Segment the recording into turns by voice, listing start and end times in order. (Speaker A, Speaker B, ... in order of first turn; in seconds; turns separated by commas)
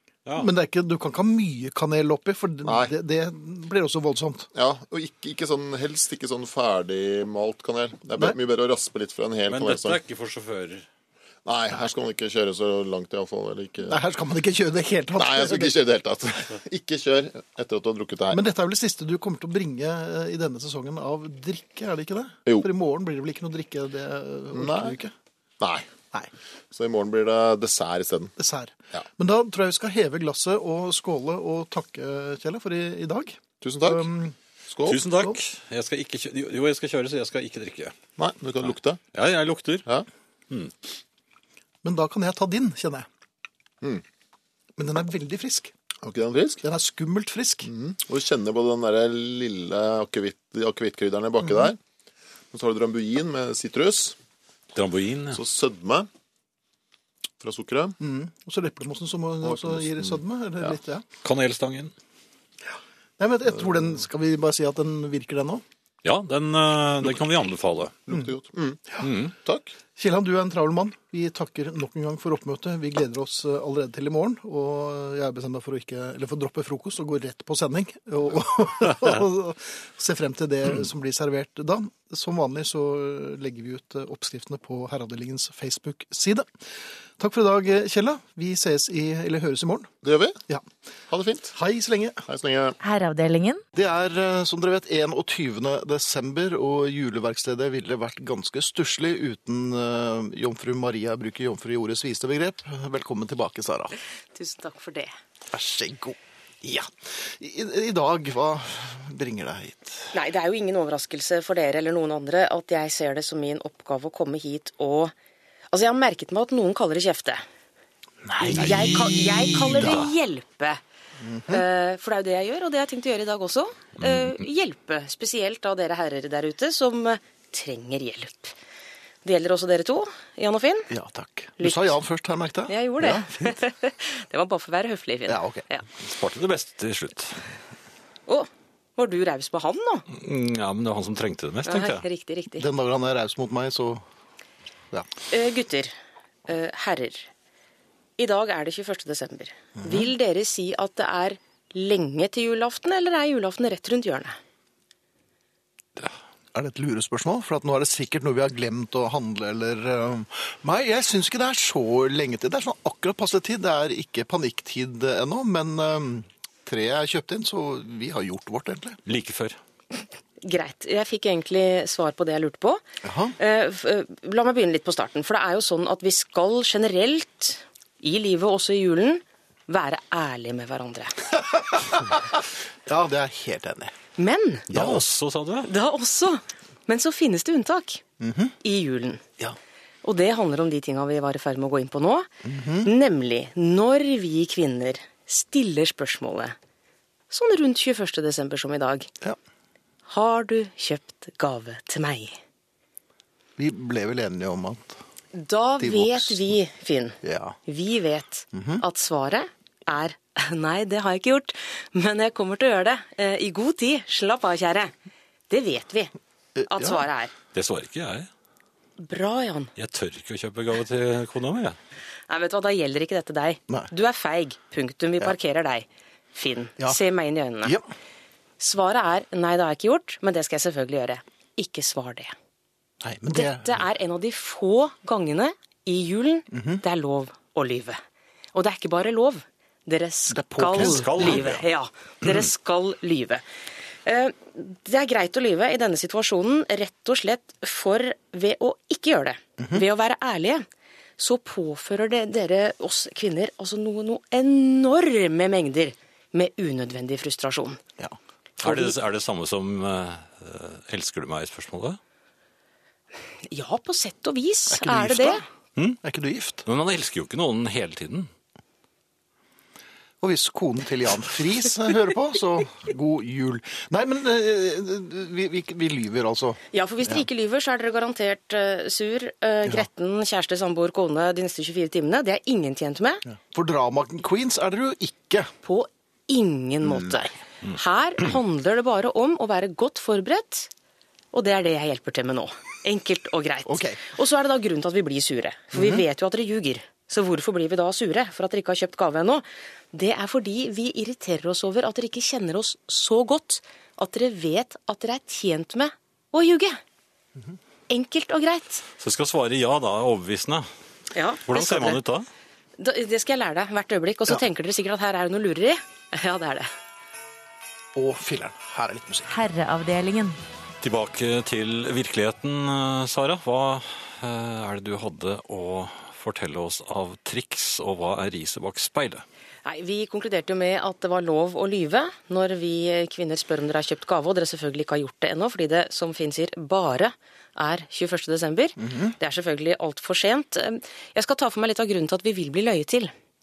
Speaker A: 0.3-4.5, Speaker B: 2.6-2.9, Speaker B: 4.5-10.0, Speaker C: 9.5-10.8, Speaker B: 11.4-14.0, Speaker A: 13.8-15.8, Speaker B: 15.2-18.4, Speaker A: 18.3-25.1, Speaker B: 24.5-25.0, Speaker B: 25.6-25.9, Speaker B: 26.7-28.4, Speaker A: 28.4-34.4, Speaker B: 33.6-34.1, Speaker B: 34.7-35.0, Speaker C: 34.9-37.9, Speaker B: 38.2-39.0, Speaker C: 38.6-39.9, Speaker A: 41.8-43.1, Speaker A: 44.8-45.7, Speaker B: 46.0-46.6, Speaker A: 46.6-47.7, Speaker B: 47.6-51.8, Speaker A: 51.4-51.7, Speaker B: 52.5-54.1, Speaker C: 54.7-55.4, Speaker B: 55.3-56.1, Speaker B: 57.4-58.0, Speaker A: 58.0-61.0, Speaker B: 59.4-60.8, Speaker C: 61.2-61.9, Speaker A: 63.2-65.6, Speaker C: 66.0-67.9, Speaker B: 68.0-69.7, Speaker C: 69.0-69.3, Speaker A: 70.0-89.9, Speaker B: 90.0-90.4, Speaker B: 91.1-91.5, Speaker A: 91.5-92.2, Speaker B: 92.3-92.8, Speaker D: 92.8-93.6, Speaker A: 93.7-103.9, Speaker E: 104.3-105.1, Speaker A: 105.5-110.1, Speaker E: 110.1-115.1, Speaker E: 115.7-117.4, Speaker A: 118.2-120.0, Speaker E: 118.4-120.8, Speaker C: 118.6-119.2, Speaker A: 121.2-121.6, Speaker E: 121.5-128.5, Speaker C: 124.0-124.4, Speaker E: 129.2-130.9, Speaker A: 130.9-133.3, Speaker E: 131.6-131.9, Speaker E: 132.7-135.8, Speaker A: 135.3-135.6, Speaker C: 136.0-137.4, Speaker E: 138.3-140.1, Speaker C: 140.1-142.0, Speaker E: 141.6-142.7, Speaker A: 142.6-144.0, Speaker E: 145.3-145.9, Speaker E: 146.5-147.3, Speaker E: 148.2-154.4, Speaker A: 149.8-150.1, Speaker A: 156.5-169.0, Speaker C: 169.1-169.6, Speaker E: 170.4-172.8, Speaker A: 173.0-173.3, Speaker E: 173.4-181.3, Speaker A: 181.3-183.9, Speaker E: 184.2-184.7, Speaker C: 184.7-185.7, Speaker A: 184.7-185.0, Speaker E: 185.6-188.0, Speaker A: 188.2-188.5, Speaker E: 188.6-189.2, Speaker E: 190.0-192.3, Speaker A: 192.4-192.9, Speaker E: 192.8-196.6, Speaker E: 197.3-199.1, Speaker E: 200.1-202.4, Speaker A: 203.6-205.0, Speaker E: 205.3-214.9, Speaker A: 205.8-206.4, Speaker A: 207.2-207.6, Speaker A: 208.5-208.8, Speaker E: 215.5-216.1, Speaker A: 216.6-217.0, Speaker E: 216.7-217.3, Speaker C: 217.5-218.3, Speaker E: 219.0-219.7, Speaker C: 219.8-221.8, Speaker E: 222.3-227.8, Speaker A: 227.6-227.9, Speaker E: 228.6-232.3, Speaker A: 233.0-233.7, Speaker E: 233.3-238.0, Speaker A: 236.5-236.8, Speaker E: 238.5-243.4, Speaker A: 240.3-241.6, Speaker C: 240.7-241.6, Speaker E: 244.0-250.6, Speaker E: 251.2-257.8, Speaker A: 258.0-258.9, Speaker C: 258.6-262.0, Speaker E: 263.5-265.4, Speaker A: 264.7-265.5, Speaker A: 266.0-266.6, Speaker C: 266.6-268.3, Speaker A: 270.2-277.2, Speaker E: 276.7-283.2, Speaker A: 283.3-285.5, Speaker E: 285.6-290.7, Speaker A: 286.8-287.3, Speaker E: 291.3-306.8, Speaker A: 293.6-294.0, Speaker A: 295.7-296.0, Speaker E: 307.9-308.8, Speaker C: 309.0-310.7, Speaker E: 311.1-312.0, Speaker C: 311.5-312.2, Speaker E: 312.8-316.7, Speaker A: 317.9-319.3, Speaker D: 319.3-320.4, Speaker C: 320.8-329.2, Speaker E: 329.6-343.1, Speaker A: 338.8-339.1